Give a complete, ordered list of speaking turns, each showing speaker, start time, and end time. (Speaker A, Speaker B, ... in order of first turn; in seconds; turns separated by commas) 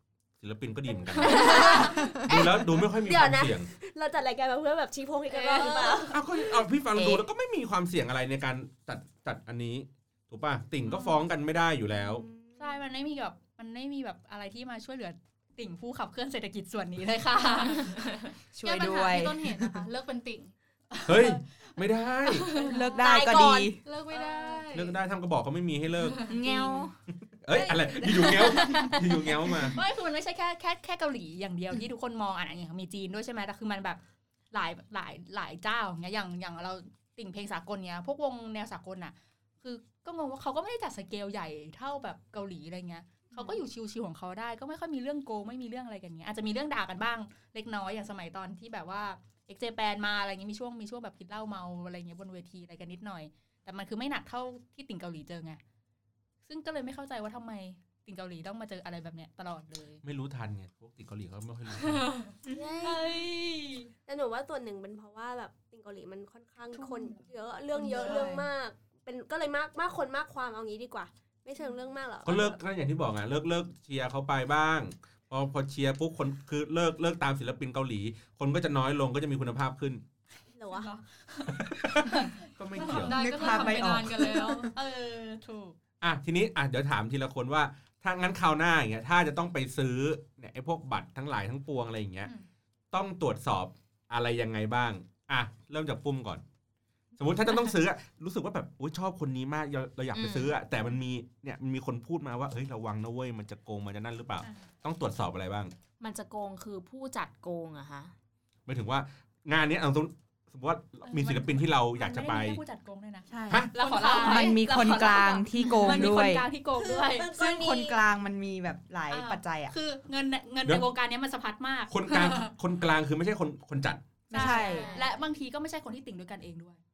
Speaker A: 0.4-3.7, Speaker B: 1.1-6.2, Speaker C: 1.2-1.8, Speaker D: 1.6-2.1, Speaker C: 5.3-6.1, Speaker A: 6.1-12.2, Speaker D: 6.9-7.2, Speaker C: 10.8-11.2, Speaker B: 12.0-12.8, Speaker C: 12.6-18.2, Speaker D: 18.5-19.9, Speaker E: 18.6-20.5, Speaker C: 20.9-21.4, Speaker A: 21.0-22.5, Speaker E: 22.3-23.0, Speaker C: 22.5-22.9, Speaker D: 22.6-23.8, Speaker B: 23.0-23.7, Speaker E: 23.8-25.0, Speaker C: 24.1-24.6, Speaker A: 24.7-26.2, Speaker E: 26.0-26.3, Speaker F: 26.3-26.9, Speaker D: 26.4-26.8, Speaker A: 27.4-29.8, Speaker C: 27.5-55.6, Speaker C: 56.5-60.0, Speaker A: 60.0-62.1, Speaker D: 62.5-62.9, Speaker B: 62.5-63.3, Speaker B: 64.0-72.6, Speaker C: 66.7-67.2, Speaker D: 67.7-68.4, Speaker A: 72.2-80.0, Speaker B: 80.5-80.9, Speaker C: 80.7-83.8, Speaker A: 81.6-83.2, Speaker E: 82.8-84.7, Speaker D: 83.1-84.7, Speaker C: 84.7-85.8, Speaker A: 86.0-92.3, Speaker A: 92.9-96.4, Speaker A: 97.2-105.7, Speaker F: 100.1-100.5, Speaker C: 104.4-104.7, Speaker F: 106.0-108.1, Speaker A: 108.7-112.6, Speaker C: 111.0-117.3, Speaker D: 113.3-116.5, Speaker E: 113.7-114.6, Speaker B: 116.8-118.0, Speaker D: 117.3-119.7, Speaker C: 119.1-122.5, Speaker A: 121.9-124.2, Speaker C: 124.3-126.8, Speaker D: 124.3-124.9, Speaker F: 124.5-125.0, Speaker B: 124.6-125.0